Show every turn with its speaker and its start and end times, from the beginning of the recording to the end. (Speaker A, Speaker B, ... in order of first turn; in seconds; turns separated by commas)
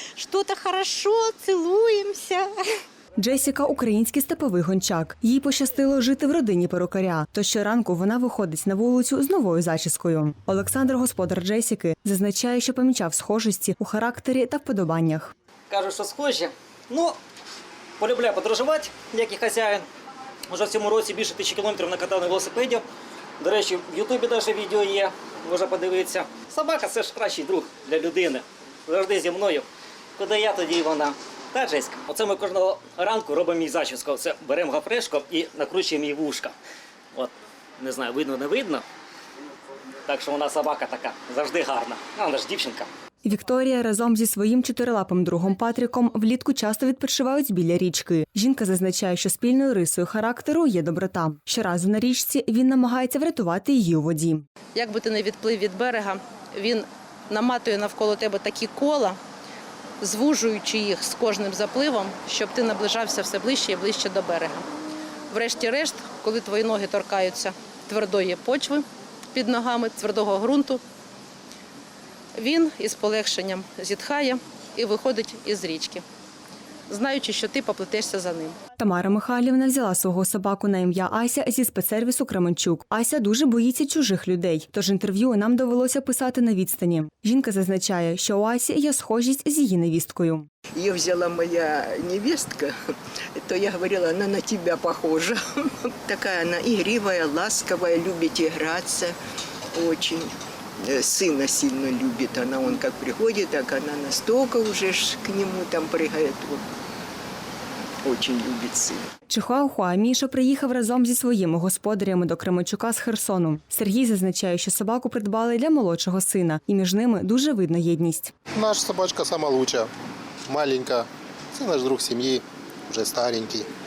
Speaker A: 0.1-2.5, Speaker B: 3.2-15.3, Speaker C: 15.7-17.2, Speaker C: 18.0-19.8, Speaker C: 20.5-22.8, Speaker C: 23.4-36.5, Speaker C: 37.1-38.8, Speaker C: 40.0-42.9, Speaker B: 43.2-54.4, Speaker D: 54.7-59.2, Speaker D: 60.0-64.6, Speaker D: 65.3-70.8, Speaker D: 72.4-76.0, Speaker D: 76.9-78.6, Speaker B: 78.8-90.5, Speaker E: 90.8-92.7, Speaker E: 93.3-99.1, Speaker E: 99.7-106.6, Speaker E: 108.0-109.1, Speaker B: 109.3-118.3, Speaker F: 118.5-119.9, Speaker F: 120.5-123.7